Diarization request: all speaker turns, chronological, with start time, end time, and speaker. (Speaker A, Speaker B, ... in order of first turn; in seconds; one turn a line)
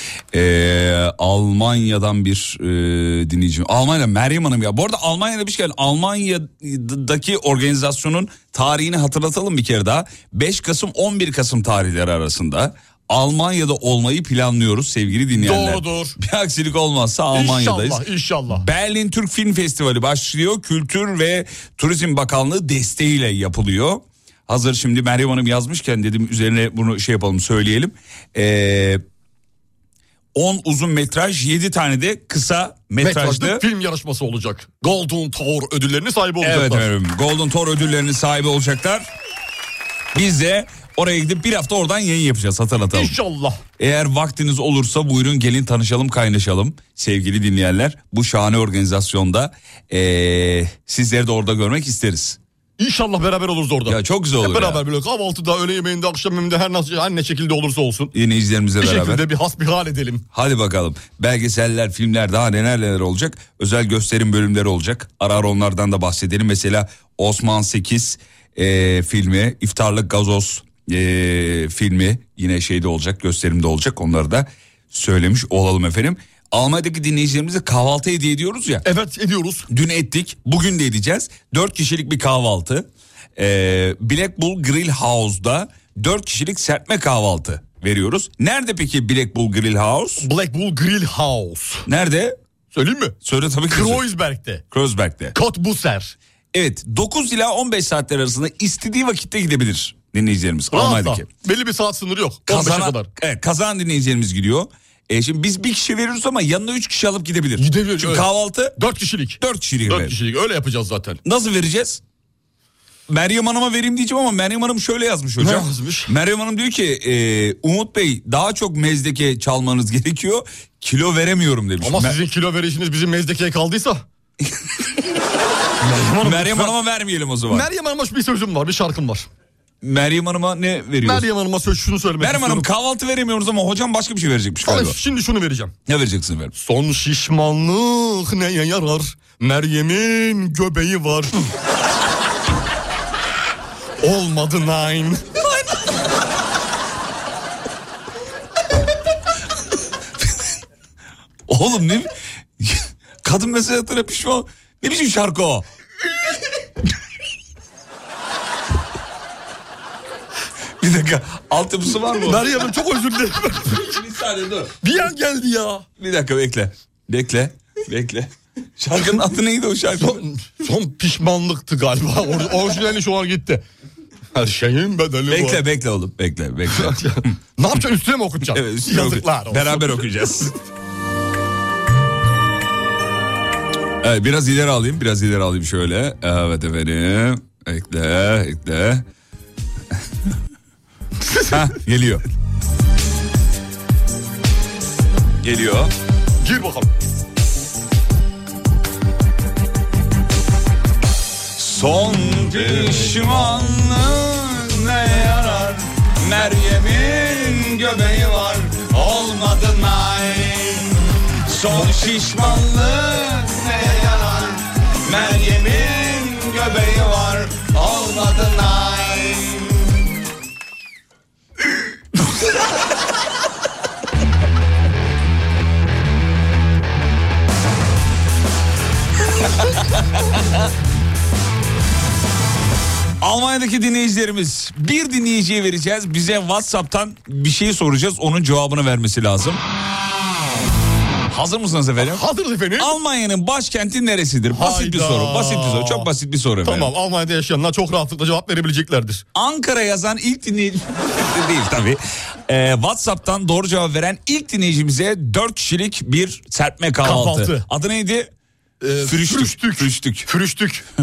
Speaker A: 0.3-29.0
Speaker B: 15.3-16.2
Speaker B: 17.3-18.7
Speaker A: 30.4-33.6
Speaker B: 33.0-36.9
Speaker A: 36.4-39.1
Speaker A: 40.1-43.2
Speaker B: 42.9-43.6
Speaker A: 43.8-52.4
Speaker B: 52.8-58.1
Speaker A: 53.9-54.8
Speaker A: 58.1-59.3
Speaker B: 58.8-60.2
Speaker A: 60.3-78.8
Speaker B: 78.8-79.7
Speaker A: 79.7-90.3
Speaker B: 90.2-91.9
Speaker A: 91.9-92.4
Speaker B: 92.7-93.2
Speaker A: 93.2-94.0
Speaker B: 93.7-94.6
Speaker A: 94.7-95.4
Speaker B: 95.3-96.1
Speaker A: 96.5-101.3
Speaker B: 100.7-103.1
Speaker A: 102.5-108.8
Speaker B: 107.6-111.2
Speaker A: 109.4-110.2
Speaker A: 111.2-112.0
Speaker A: 113.1-122.2
Speaker B: 115.4-116.1
Speaker B: 121.8-124.0
Speaker B: 125.8-126.7
Speaker A: 126.2-127.7
Speaker B: 127.5-129.3
Speaker A: 129.8-131.3
Speaker B: 131.0-132.7
Speaker A: 132.2-135.0
Speaker B: 134.6-135.7
Speaker A: 135.9-136.5
Speaker B: 136.6-141.5
Speaker B: 144.0-145.2
Speaker A: 151.5-155.7
Speaker A: 160.8-162.7
Speaker B: 162.2-163.8
Speaker A: 163.6-164.7
Speaker B: 164.8-165.8
Speaker A: 166.0-170.2
Speaker B: 170.0-173.6
Speaker B: 174.3-175.6
Speaker A: 175.3-177.0
Speaker B: 176.7-180.1
Speaker A: 178.5-180.6
Speaker A: 184.0-189.1
Speaker B: 191.2-191.6
Speaker A: 191.5-192.2
Speaker A: 195.4-195.9
Speaker B: 196.4-196.9
Speaker A: 201.5-220.0
Speaker B: 202.7-203.4
Speaker A: 233.2-239.6
Speaker A: 241.3-242.2
Speaker B: 242.0-242.9
Speaker A: 242.8-246.9
Speaker B: 244.5-246.1
Speaker B: 246.6-249.2
Speaker A: 249.3-258.3
Speaker B: 257.0-257.6
Speaker B: 258.8-260.9
Speaker A: 259.0-260.3